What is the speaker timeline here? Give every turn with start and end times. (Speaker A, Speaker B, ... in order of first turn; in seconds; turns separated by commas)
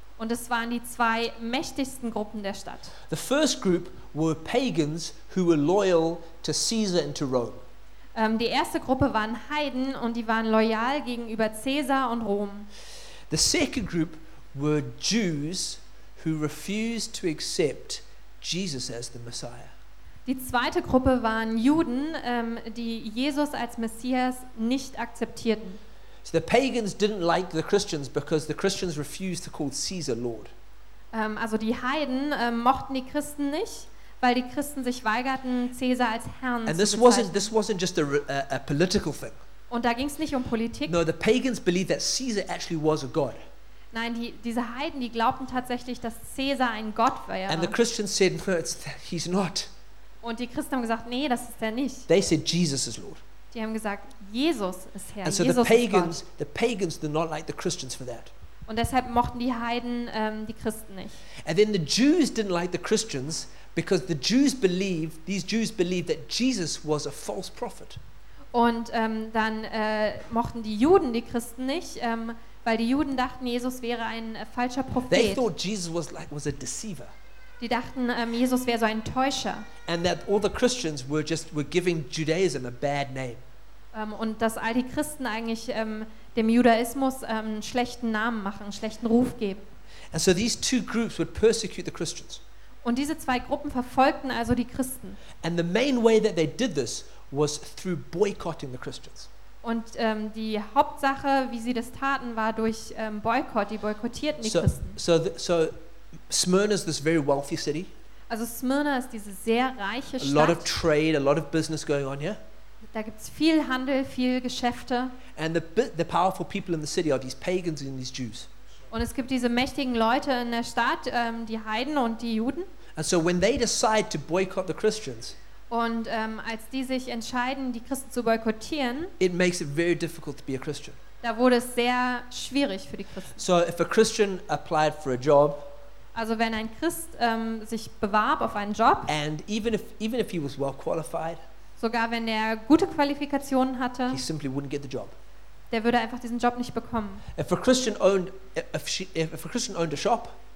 Speaker A: 0.2-2.9, Speaker B: 3.1-7.6, Speaker A: 8.1-12.7, Speaker B: 13.3-19.7, Speaker A: 20.2-25.8, Speaker B: 26.2-30.5, Speaker A: 31.1-37.5, Speaker B: 36.6-39.4, Speaker A: 39.7-40.9, Speaker B: 40.9-43.4, Speaker A: 43.9-47.7, Speaker B: 47.5-49.7, Speaker A: 50.2-52.1, Speaker B: 52.1-53.2, Speaker A: 53.5-56.1, Speaker B: 55.2-58.3, Speaker A: 58.7-61.2, Speaker B: 61.4-68.0, Speaker A: 68.5-75.5, Speaker B: 75.1-77.1, Speaker A: 77.6-79.7, Speaker B: 79.8-83.4, Speaker A: 83.9-89.7, Speaker B: 90.1-92.4, Speaker A: 92.8-95.2, Speaker B: 95.4-99.3, Speaker A: 99.6-105.0, Speaker B: 104.4-105.8, Speaker B: 106.3-107.9, Speaker A: 108.3-110.7, Speaker B: 110.2-112.4, Speaker A: 112.9-115.2, Speaker B: 115.3-118.5, Speaker A: 118.9-122.7, Speaker B: 123.0-125.3, Speaker A: 125.7-129.1, Speaker B: 129.2-131.0, Speaker A: 131.2-133.4, Speaker B: 133.3-135.7, Speaker A: 136.1-139.1, Speaker B: 139.1-141.4, Speaker A: 141.8-144.2, Speaker B: 144.1-145.1, Speaker A: 145.7-147.2, Speaker B: 147.3-150.4